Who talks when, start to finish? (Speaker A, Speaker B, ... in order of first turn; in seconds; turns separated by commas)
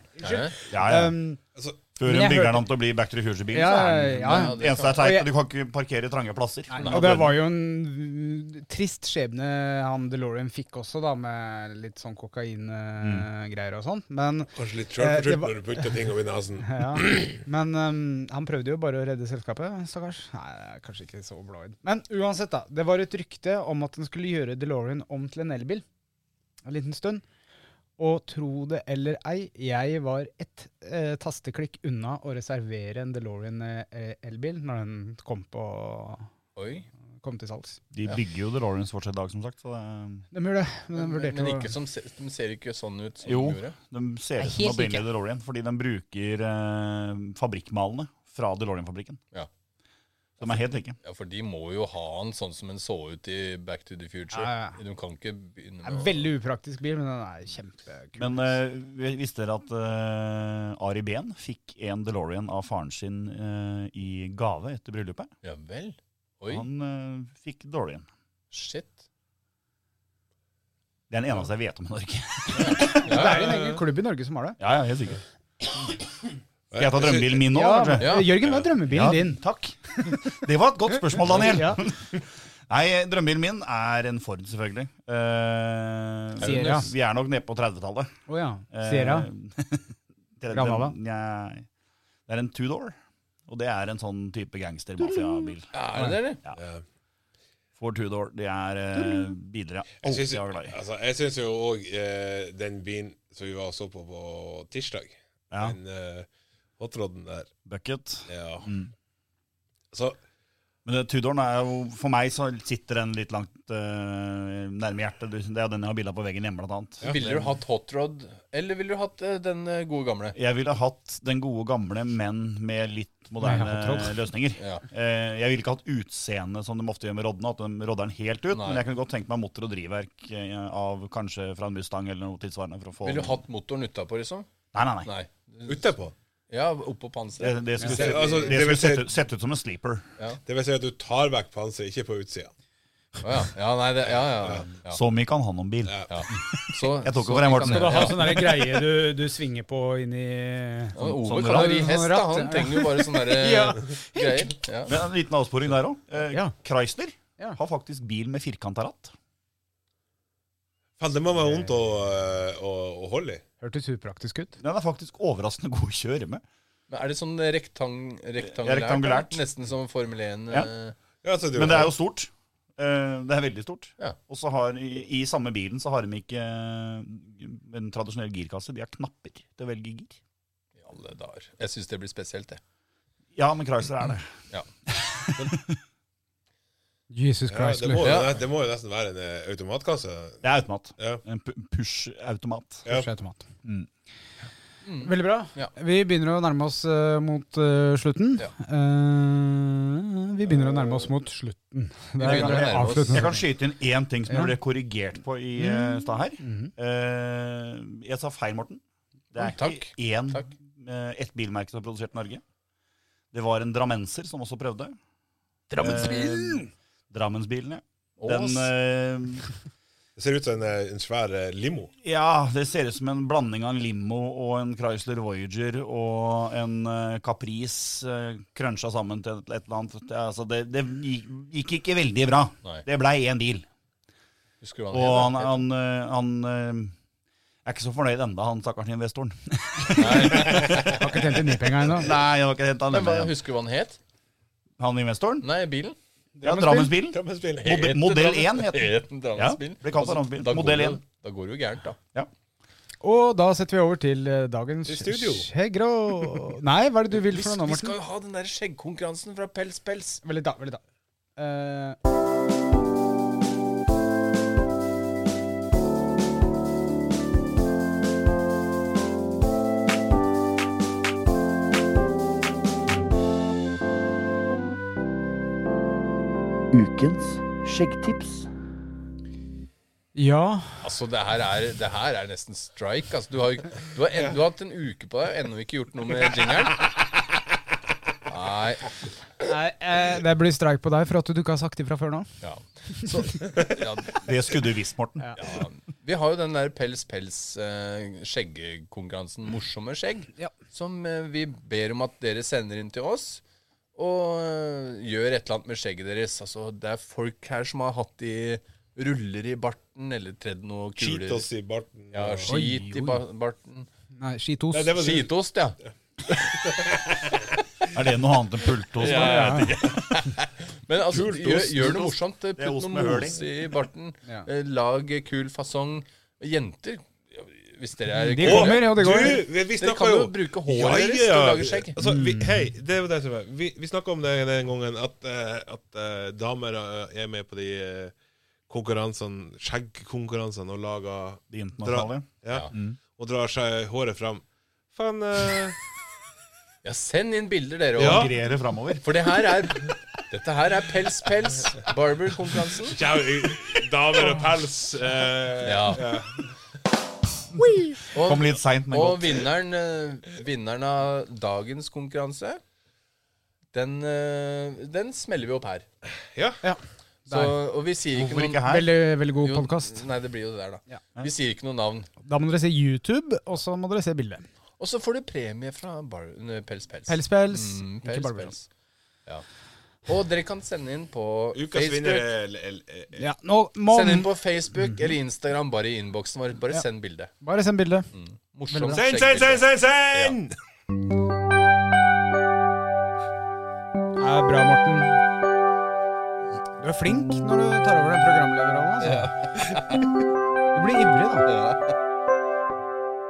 Speaker A: 0.1-1.4, Speaker B: 0.2-0.6, Speaker C: 0.7-1.2, Speaker C: 2.0-7.3, Speaker A: 2.0-2.7, Speaker A: 3.5-5.3, Speaker B: 4.2-5.0, Speaker A: 6.7-15.9, Speaker B: 6.8-7.2, Speaker C: 13.0-13.3, Speaker D: 14.6-17.4, Speaker A: 16.6-25.9, Speaker A: 26.6-27.2, Speaker A: 28.0-36.3, Speaker B: 36.6-36.9, Speaker A: 37.2-37.8, Speaker C: 37.9-40.3, Speaker A: 40.3-41.7, Speaker B: 41.0-43.8, Speaker C: 43.2-49.2, Speaker A: 44.4-45.1, Speaker C: 50.4-51.0, Speaker B: 50.4-56.3, Speaker A: 54.3-54.8, Speaker A: 55.8-58.5, Speaker C: 58.2-65.3, Speaker B: 65.4-66.7, Speaker C: 66.5-68.1, Speaker B: 68.5-69.0, Speaker C: 71.1-73.1, Speaker B: 72.5-73.5, Speaker A: 72.8-74.6, Speaker D: 73.2-73.8, Speaker C: 74.6-75.2, Speaker D: 76.7-77.4, Speaker C: 76.8-78.3, Speaker A: 77.5-79.4, Speaker B: 78.0-78.4, Speaker C: 78.8-88.1, Speaker A: 81.3-81.8, Speaker A: 86.4-86.9, Speaker B: 86.4-86.8, Speaker A: 88.3-89.3, Speaker C: 88.7-91.7, Speaker A: 90.5-91.0, Speaker C: 92.3-93.0, Speaker C: 93.5-95.7, Speaker B: 95.7-96.4, Speaker A: 95.9-96.2, Speaker D: 96.5-96.8, Speaker C: 97.8-100.8, Speaker D: 100.0-107.5, Speaker C: 105.5-105.8, Speaker C: 107.7-108.9, Speaker D: 108.3-108.7, Speaker D: 109.9-110.2, Speaker C: 110.8-117.4, Speaker D: 117.0-117.5, Speaker B: 117.0-120.4, Speaker C: 120.3-133.4, Speaker A: 123.4-124.2, Speaker B: 124.6-124.8, Speaker B: 128.5-128.8, Speaker B: 133.0-134.5, Speaker C: 134.7-135.1, Speaker B: 135.1-135.9, Speaker D: 135.7-136.1, Speaker B: 136.5-138.6, Speaker C: 137.4-140.1, Speaker D: 137.9-139.1, Speaker D: 140.5-142.5, Speaker B: 143.2-145.0, Speaker D: 144.4-144.7, Speaker C: 144.8-148.7, Speaker B: 146.1-148.5, Speaker A: 147.7-154.6, Speaker B: 150.9-155.0, Speaker C: 151.0-152.0, Speaker C: 154.8-159.1, Speaker D: 161.0-163.4, Speaker A: 163.6-164.6, Speaker C: 164.6-166.4, Speaker B: 166.9-170.9, Speaker C: 168.4-169.4, Speaker D: 171.2-171.9, Speaker C: 171.5-180.2, Speaker B: 180.8-182.6, Speaker C: 183.3-184.3, Speaker C: 184.9-185.8, Speaker A: 187.1-188.1, Speaker D: 187.5-190.4, Speaker B: 188.0-188.4, Speaker C: 190.4-192.9, Speaker A: 192.9-193.5, Speaker B: 194.8-195.7, Speaker A: 195.0-203.3, Speaker B: 202.2-203.4, Speaker C: 202.2-208.8, Speaker A: 204.3-204.6, Speaker A: 205.6-206.7, Speaker C: 209.3-212.4, Speaker B: 209.4-210.5, Speaker C: 213.3-215.0, Speaker C: 215.7-219.5, Speaker A: 215.8-216.6, Speaker B: 218.2-218.7, Speaker D: 220.2-221.9, Speaker C: 222.0-233.7, Speaker B: 234.6-235.6, Speaker C: 234.9-236.9, Speaker C: 237.7-243.3, Speaker B: 240.0-241.0, Speaker A: 241.0-242.1, Speaker B: 242.9-244.0, Speaker C: 244.8-245.5, Speaker B: 245.4-246.0, Speaker A: 246.4-247.0, Speaker C: 246.4-251.0, Speaker D: 247.0-247.8, Speaker B: 247.6-252.0, Speaker A: 253.0-257.9, Speaker D: 254.9-255.5, Speaker B: 257.1-260.2, Speaker A: 260.2-260.8, Speaker A: 261.4-262.0, Speaker C: 276.7-278.5, Speaker A: 280.1-280.8, Speaker B: 280.8-286.9, Speaker B: 288.3-288.9, Speaker A: 289.4-292.3, Speaker B: 292.4-294.3, Speaker C: 294.2-295.3, Speaker B: 295.4-303.4, Speaker B: 303.9-311.5, Speaker D: 311.0-312.6, Speaker B: 312.1-313.9, Speaker A: 312.5-313.2, Speaker A: 314.2-315.0, Speaker D: 314.7-315.3, Speaker B: 314.9-315.8, Speaker D: 316.5-317.4, Speaker C: 317.9-320.2, Speaker B: 319.0-332.0, Speaker A: 319.0-319.7, Speaker C: 321.1-323.4, Speaker A: 328.2-329.4, Speaker D: 328.4-338.1, Speaker A: 332.0-332.7, Speaker D: 338.7-345.8, Speaker C: 341.5-343.0, Speaker B: 346.8-348.3, Speaker C: 348.0-349.2, Speaker D: 348.0-348.3, Speaker B: 349.0-353.0, Speaker D: 352.9-356.5, Speaker B: 355.6-356.1, Speaker B: 358.1-362.6, Speaker C: 358.2-359.4, Speaker B: 363.7-365.9, Speaker D: 366.3-366.6, Speaker A: 366.6-367.6, Speaker B: 367.3-368.7, Speaker C: 368.1-368.9, Speaker A: 368.6-370.0, Speaker B: 369.4-372.1, Speaker A: 372.2-374.4, Speaker B: 374.8-378.7, Speaker A: 377.1-378.5, Speaker B: 380.1-382.3, Speaker D: 381.6-383.2, Speaker A: 383.2-385.1, Speaker B: 383.9-387.3, Speaker A: 387.4-388.1, Speaker B: 388.1-390.4, Speaker A: 388.7-389.0, Speaker D: 388.9-390.6, Speaker A: 394.2-395.2, Speaker A: 396.8-399.3, Speaker B: 399.0-400.1, Speaker A: 400.7-401.5, Speaker B: 401.4-402.0